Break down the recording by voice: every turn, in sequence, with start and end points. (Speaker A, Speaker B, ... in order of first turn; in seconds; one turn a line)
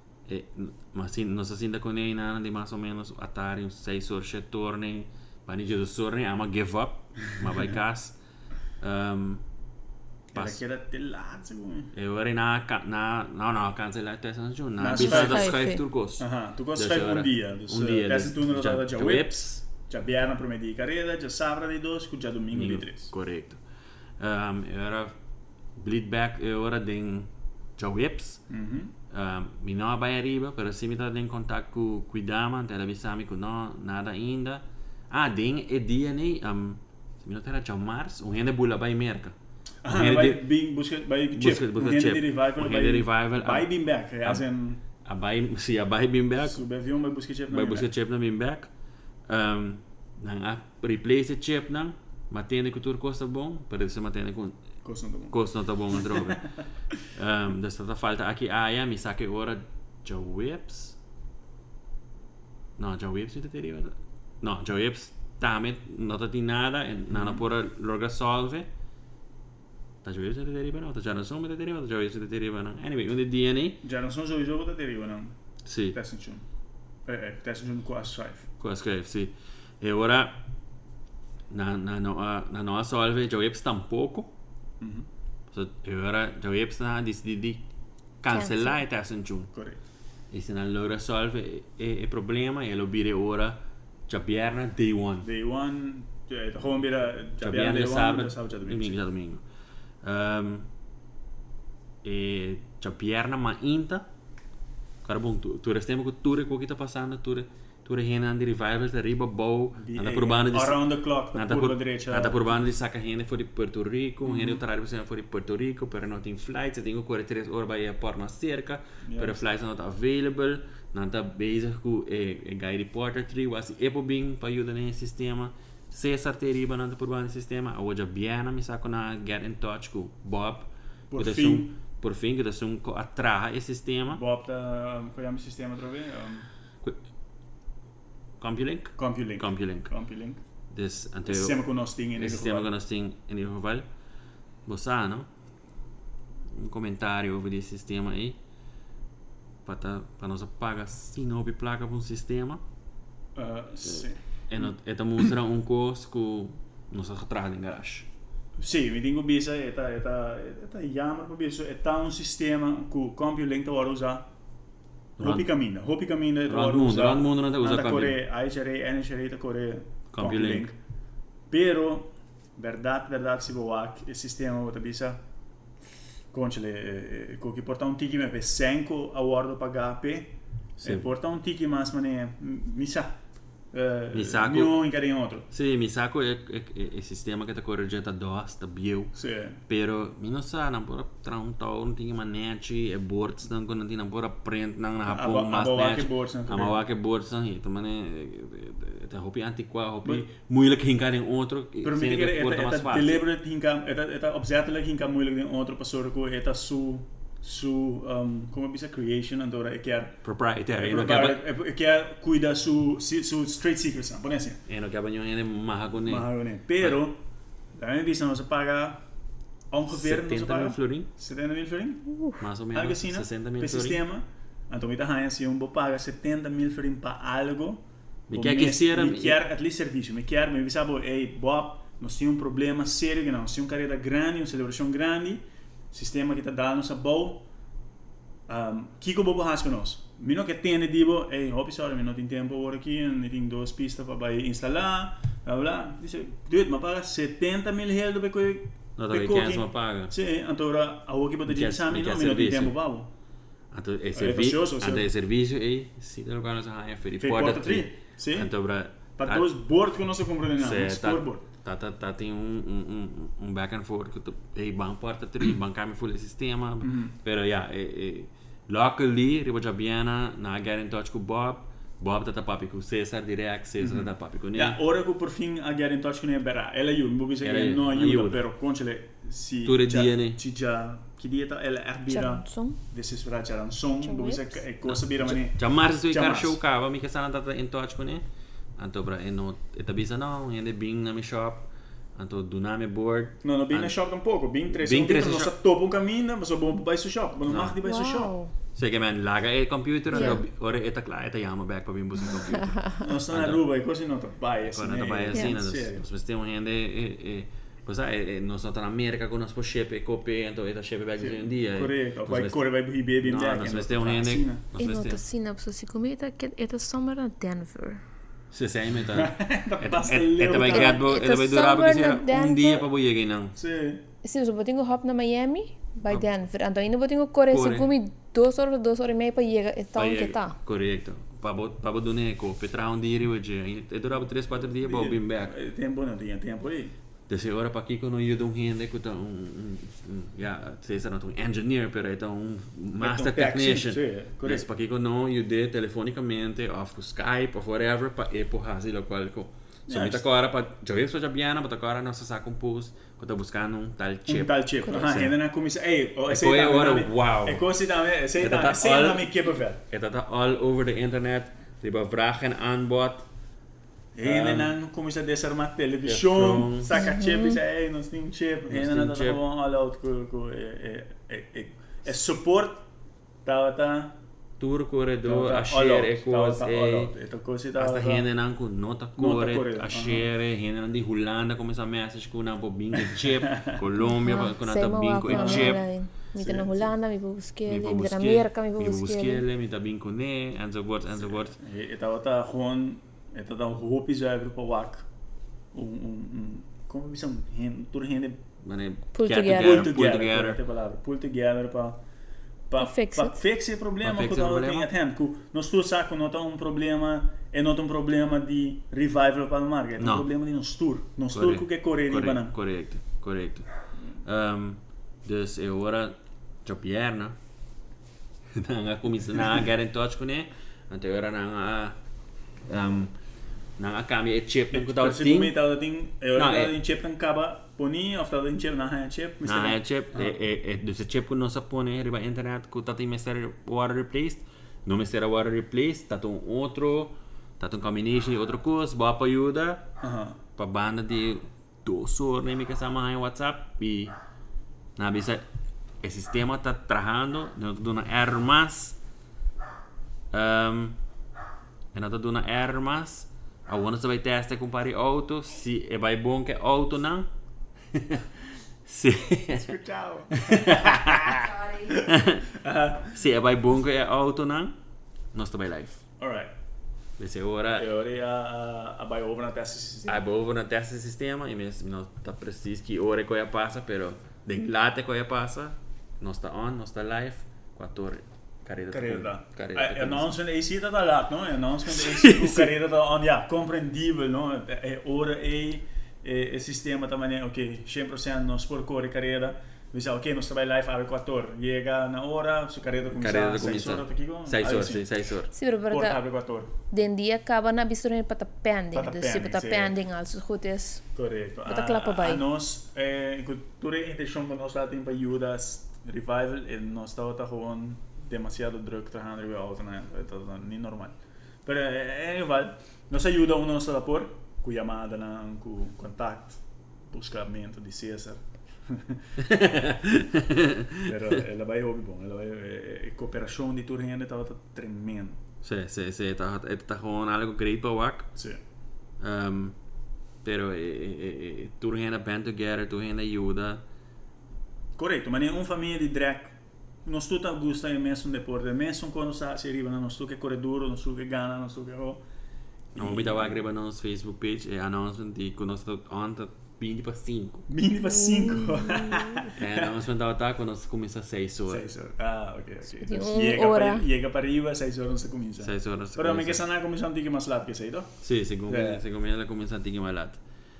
Speaker A: 0.3-8.2
Speaker A: 8.8-9.4
Speaker A: 10.3-10.6
Speaker B: 10.3-11.9
Speaker A: 11.9-19.6
Speaker B: 14.8-15.6
Speaker C: 14.9-15.8
Speaker B: 16.2-23.1
Speaker A: 22.5-23.6
Speaker A: 24.2-25.1
Speaker A: 25.8-28.4
Speaker B: 28.5-28.9
Speaker A: 29.1-39.3
Speaker B: 39.8-44.8
Speaker A: 39.9-40.5
Speaker A: 41.3-43.7
Speaker A: 45.0-46.6
Speaker B: 46.4-47.9
Speaker A: 47.5-48.7
Speaker A: 49.3-54.6
Speaker B: 54.8-55.4
Speaker A: 55.3-61.0
Speaker B: 56.0-56.5
Speaker A: 62.8-68.7
Speaker B: 67.1-67.4
Speaker A: 70.0-73.8
Speaker B: 73.8-75.3
Speaker A: 75.6-76.0
Speaker B: 75.9-76.4
Speaker B: 77.0-78.5
Speaker A: 78.6-80.5
Speaker A: 81.5-84.3
Speaker B: 84.8-85.1
Speaker A: 85.5-87.6
Speaker A: 88.2-89.5
Speaker C: 88.3-88.8
Speaker B: 89.5-89.8
Speaker A: 90.3-95.3
Speaker B: 95.2-99.0
Speaker A: 97.4-99.4
Speaker A: 100.0-100.7
Speaker A: 102.0-104.1
Speaker A: 105.0-134.2
Speaker B: 109.8-112.5
Speaker B: 114.2-114.6
Speaker B: 119.0-119.4
Speaker B: 131.1-131.8
Speaker B: 134.1-136.5
Speaker A: 138.4-139.9
Speaker B: 139.0-140.4
Speaker A: 140.7-141.6
Speaker B: 141.3-142.7
Speaker A: 142.1-143.9
Speaker A: 144.7-145.3
Speaker A: 146.5-148.4
Speaker A: 149.6-152.6
Speaker B: 153.3-154.2
Speaker A: 153.8-158.1
Speaker B: 158.6-164.3
Speaker A: 165.2-165.5
Speaker B: 165.2-170.8
Speaker A: 166.5-168.2
Speaker A: 170.1-170.7
Speaker B: 171.5-175.2
Speaker B: 176.3-183.2
Speaker A: 180.8-181.1
Speaker B: 183.7-185.5
Speaker A: 184.1-184.8
Speaker A: 185.5-189.2
Speaker B: 189.1-189.6
Speaker A: 189.7-203.2
Speaker B: 195.1-196.8
Speaker B: 201.8-210.2
Speaker A: 210.2-211.4
Speaker B: 210.8-214.6
Speaker A: 214.7-217.0
Speaker B: 216.0-217.2
Speaker B: 217.7-219.0
Speaker B: 219.7-222.2
Speaker A: 219.9-221.1
Speaker A: 222.4-224.0
Speaker B: 222.7-237.5
Speaker A: 228.3-229.4
Speaker B: 238.5-253.1
Speaker A: 249.0-250.1
Speaker A: 251.5-252.8
Speaker A: 253.7-259.5
Speaker B: 254.1-255.1
Speaker B: 257.2-258.5
Speaker B: 259.1-261.4
Speaker A: 260.6-274.8
Speaker B: 266.8-267.1
Speaker B: 273.8-286.6
Speaker A: 277.4-278.4
Speaker A: 279.6-280.4
Speaker C: 282.1-282.8
Speaker C: 284.0-284.6
Speaker A: 284.8-288.2
Speaker A: 288.8-294.0
Speaker B: 293.4-298.4
Speaker A: 294.7-295.5
Speaker A: 297.4-297.8
Speaker C: 297.8-298.5
Speaker A: 298.7-303.6
Speaker C: 300.1-300.4
Speaker B: 303.0-306.0
Speaker A: 304.7-315.2
Speaker B: 311.2-314.6
Speaker C: 314.8-318.0
Speaker A: 318.5-323.5
Speaker B: 319.1-321.0
Speaker C: 320.5-322.9
Speaker B: 323.5-324.0
Speaker C: 324.2-330.6
Speaker A: 327.5-327.9
Speaker A: 329.9-335.5
Speaker B: 334.8-336.9
Speaker A: 337.3-355.4
Speaker B: 343.0-344.6
Speaker B: 349.9-350.2
Speaker B: 354.2-359.8
Speaker A: 356.3-357.6
Speaker A: 358.3-359.3
Speaker A: 359.9-363.3
Speaker B: 364.1-372.8
Speaker A: 364.2-364.7
Speaker A: 366.0-367.0
Speaker C: 366.9-367.6
Speaker A: 368.7-369.4
Speaker B: 373.4-374.2
Speaker A: 374.6-377.1
Speaker B: 375.2-378.3
Speaker A: 377.8-385.8
Speaker B: 379.2-380.3
Speaker B: 383.5-383.8
Speaker C: 384.1-389.4
Speaker B: 385.3-385.8
Speaker B: 386.3-386.9
Speaker A: 387.6-391.6
Speaker B: 391.2-395.1
Speaker B: 395.7-398.4
Speaker A: 398.6-400.6
Speaker C: 399.1-399.9
Speaker B: 399.4-402.0
Speaker B: 402.7-412.6
Speaker C: 402.8-403.4
Speaker A: 404.0-404.9
Speaker A: 410.0-410.3
Speaker A: 411.3-413.7
Speaker A: 414.2-417.4
Speaker A: 418.5-422.0
Speaker A: 422.6-423.1
Speaker A: 423.8-425.6
Speaker B: 424.7-430.3
Speaker A: 426.3-426.8
Speaker A: 429.4-439.9
Speaker B: 440.0-440.4
Speaker A: 440.6-444.1
Speaker A: 445.0-445.4
Speaker A: 446.0-449.0
Speaker A: 450.3-451.0
Speaker A: 451.9-457.3
Speaker A: 457.9-458.3
Speaker A: 458.8-459.8
Speaker B: 459.5-463.1
Speaker A: 460.3-464.8
Speaker A: 465.3-466.0
Speaker B: 466.2-466.5
Speaker A: 467.2-467.9
Speaker B: 467.8-470.2
Speaker A: 470.1-480.4
Speaker B: 478.9-495.1
Speaker A: 481.9-482.7
Speaker A: 493.1-495.5
Speaker C: 495.5-496.2
Speaker B: 495.9-496.7
Speaker C: 496.9-501.0
Speaker B: 498.9-499.9
Speaker B: 501.1-519.2
Speaker C: 501.6-502.4
Speaker A: 519.4-521.4
Speaker B: 521.0-525.4
Speaker A: 525.6-528.3
Speaker A: 529.2-529.7
Speaker A: 530.4-533.8
Speaker B: 535.0-542.2
Speaker B: 542.9-543.6
Speaker A: 542.9-547.7
Speaker B: 547.7-549.9
Speaker C: 548.3-549.5
Speaker A: 549.5-551.9
Speaker B: 551.7-558.1
Speaker C: 553.0-554.1
Speaker A: 555.6-556.6
Speaker A: 558.2-560.4
Speaker B: 558.7-559.0